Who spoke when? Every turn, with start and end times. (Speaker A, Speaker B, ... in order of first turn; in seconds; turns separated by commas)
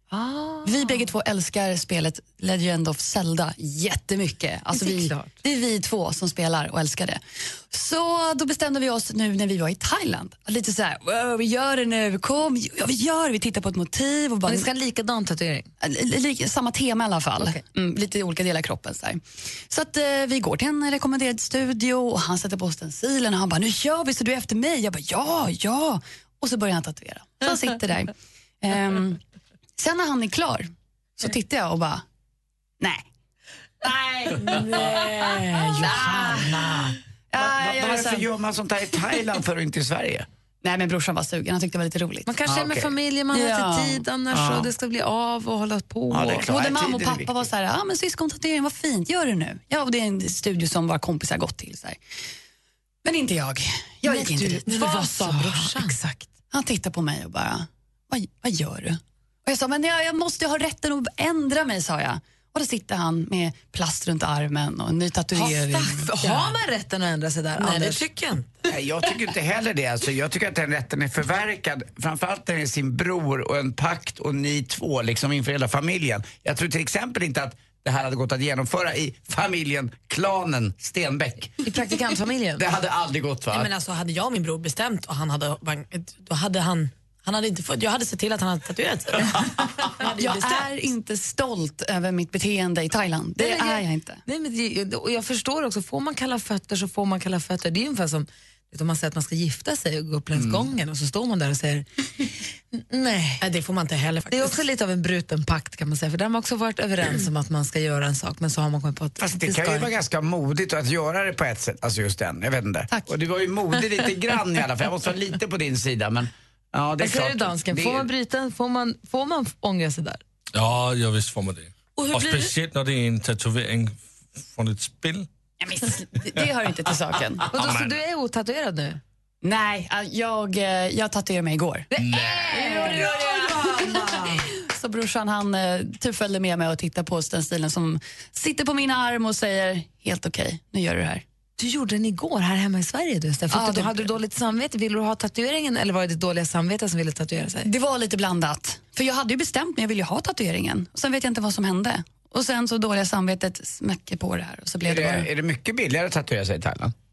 Speaker A: 0.1-1.0, Speaker B: 0.6-14.7, Speaker A: 4.7-5.4, Speaker A: 14.5-15.7, Speaker B: 15.8-29.2, Speaker B: 29.8-32.0, Speaker B: 32.8-33.1, Speaker B: 33.8-35.0, Speaker C: 34.4-36.5, Speaker B: 35.8-36.6, Speaker D: 36.0-40.3, Speaker B: 37.3-38.3, Speaker B: 40.6-42.3, Speaker A: 42.3-46.5, Speaker D: 42.5-42.9, Speaker B: 43.3-44.0, Speaker D: 44.3-44.7, Speaker D: 46.1-47.5, Speaker B: 46.5-52.0, Speaker B: 53.0-55.7, Speaker A: 54.0-56.0, Speaker C: 54.7-56.0, Speaker B: 56.5-66.1, Speaker C: 65.4-66.6, Speaker A: 65.8-68.0, Speaker C: 67.6-68.6, Speaker D: 68.7-81.5, Speaker A: 81.6-82.6, Speaker D: 82.6-83.7, Speaker C: 83.5-90.7, Speaker B: 90.0-94.2, Speaker A: 93.4-101.9, Speaker D: 100.3-100.7, Speaker A: 102.7-103.4, Speaker C: 103.4-104.6, Speaker A: 104.3-109.9, Speaker D: 109.2-118.1, Speaker A: 117.0-120.2, Speaker E: 120.6-125.3, Speaker C: 122.0-122.5, Speaker B: 125.6-127.5, Speaker A: 127.5-129.0, Speaker E: 127.6-127.9, Speaker B: 129.4-131.9, Speaker A: 131.9-134.2, Speaker E: 132.0-132.6, Speaker B: 132.6-141.2, Speaker C: 132.7-133.2, Speaker A: 141.6-147.7, Speaker B: 143.5-144.1, Speaker B: 147.6-155.3, Speaker D: 154.8-156.9